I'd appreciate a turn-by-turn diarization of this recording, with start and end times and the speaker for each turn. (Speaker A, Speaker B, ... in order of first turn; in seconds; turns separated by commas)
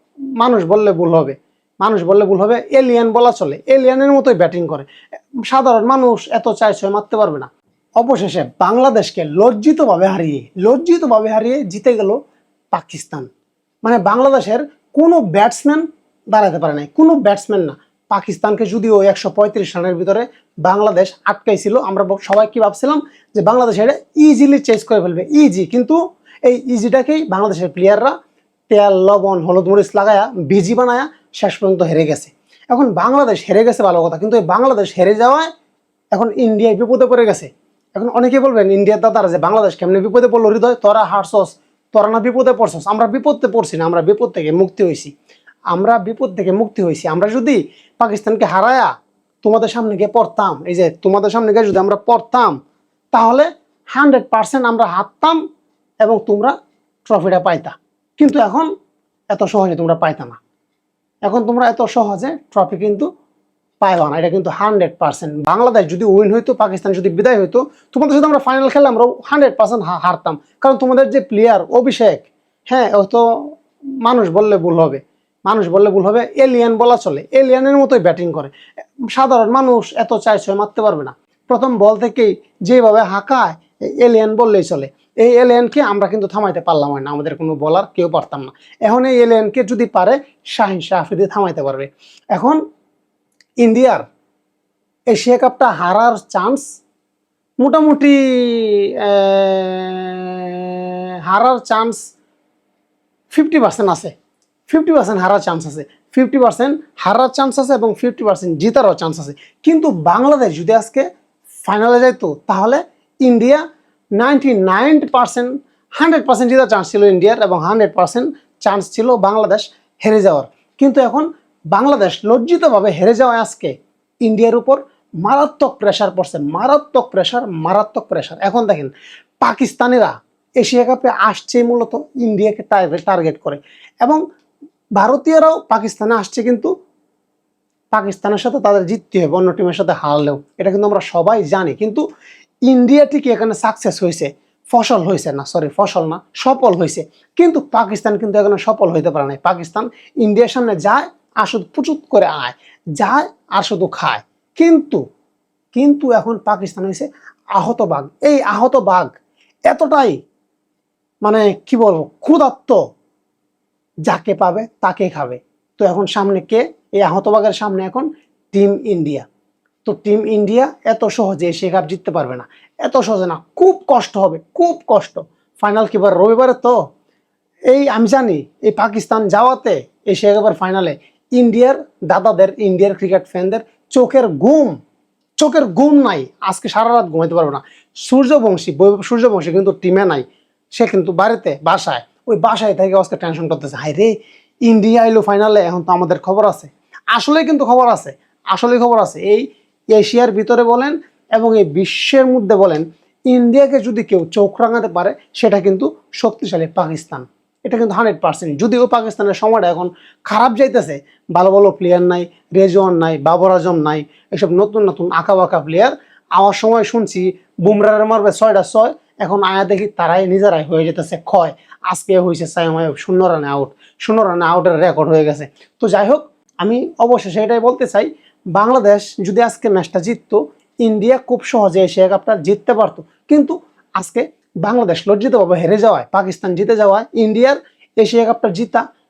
Speaker A: 0.4-4.9, Speaker A: 5.5-7.5, Speaker A: 8.0-12.2, Speaker A: 12.7-13.3, Speaker A: 13.8-28.1, Speaker A: 28.7-35.5, Speaker A: 36.1-45.1, Speaker A: 45.7-48.9, Speaker A: 49.4-52.6, Speaker A: 53.1-55.4, Speaker A: 56.0-56.5, Speaker A: 57.1-58.7, Speaker A: 59.3-60.4, Speaker A: 61.3-63.1, Speaker A: 63.8-73.2, Speaker A: 74.0-78.5, Speaker A: 79.1-92.6, Speaker A: 93.6-94.0, Speaker A: 95.1-96.7, Speaker A: 97.6-102.0, Speaker A: 103.3-104.1, Speaker A: 104.7-111.1, Speaker A: 111.7-113.6, Speaker A: 114.2-123.7, Speaker A: 124.2-134.2, Speaker A: 135.0-136.7, Speaker A: 137.9-142.0, Speaker A: 142.7-155.0, Speaker A: 155.7-159.1, Speaker A: 159.7-160.2, Speaker A: 161.2-162.8, Speaker A: 164.1-169.3, Speaker A: 169.8-176.8, Speaker A: 177.7-184.8, Speaker A: 185.4-190.2, Speaker A: 190.8-194.1, Speaker A: 194.7-238.8